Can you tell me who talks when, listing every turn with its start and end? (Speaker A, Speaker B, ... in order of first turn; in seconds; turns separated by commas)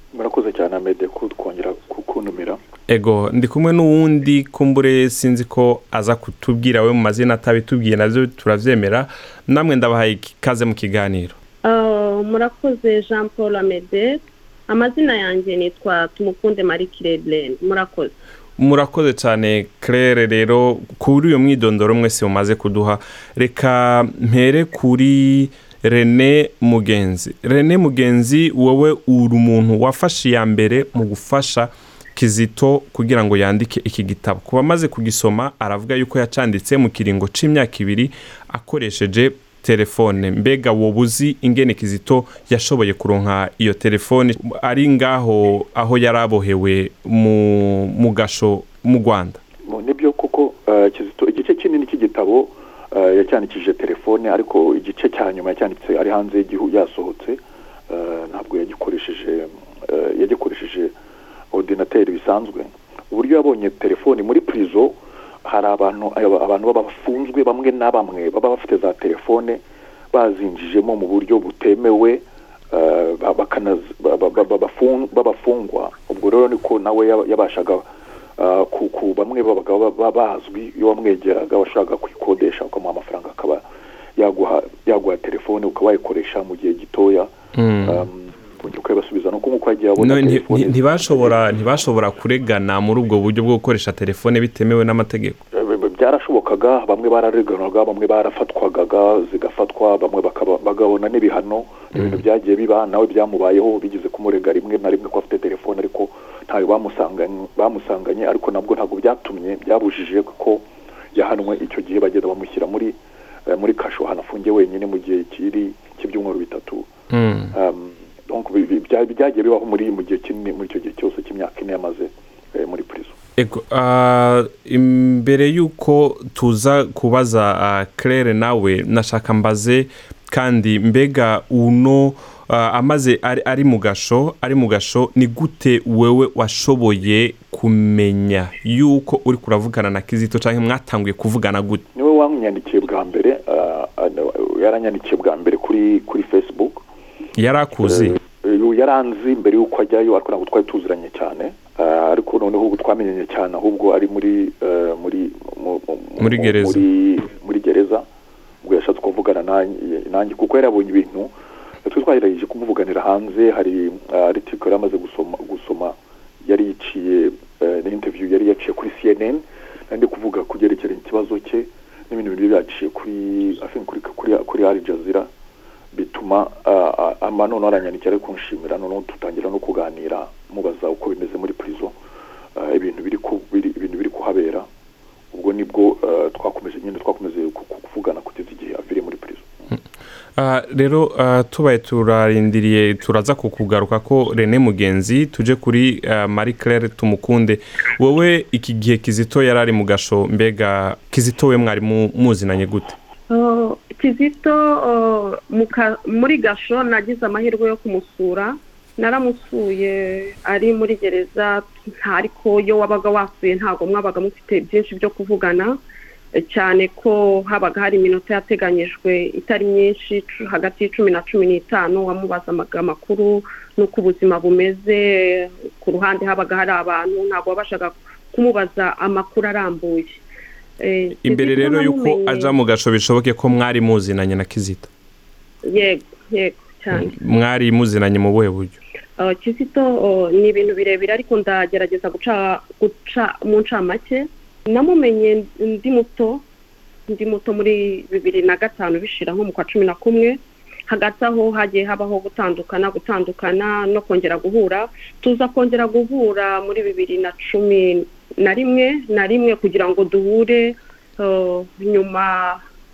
Speaker A: 0.1-2.6, Speaker B: 2.9-11.3, Speaker C: 11.6-18.1, Speaker B: 18.6-49.4, Speaker A: 49.6-60.9, Speaker A: 61.5-69.6, Speaker A: 70.1-77.8, Speaker A: 78.4-83.6, Speaker A: 84.2-91.3, Speaker B: 87.5-88.0, Speaker B: 90.0-95.4, Speaker A: 95.5-116.9, Speaker B: 101.9-102.2, Speaker B: 117.1-117.5, Speaker A: 117.5-123.2, Speaker B: 123.4-141.8, Speaker A: 141.9-146.8, Speaker B: 147.3-148.2, Speaker A: 147.8-158.1, Speaker B: 156.2-156.8, Speaker A: 158.6-161.3, Speaker A: 161.8-175.3, Speaker A: 175.9-181.9, Speaker A: 182.5-184.7, Speaker A: 185.3-189.5, Speaker B: 190.4-202.9, Speaker C: 203.3-215.8, Speaker C: 216.3-230.2, Speaker C: 230.8-232.5, Speaker B: 231.2-234.9, Speaker C: 235.6-237.1, Speaker B: 236.9-238.8, Speaker C: 239.2-246.4, Speaker C: 247.1-262.6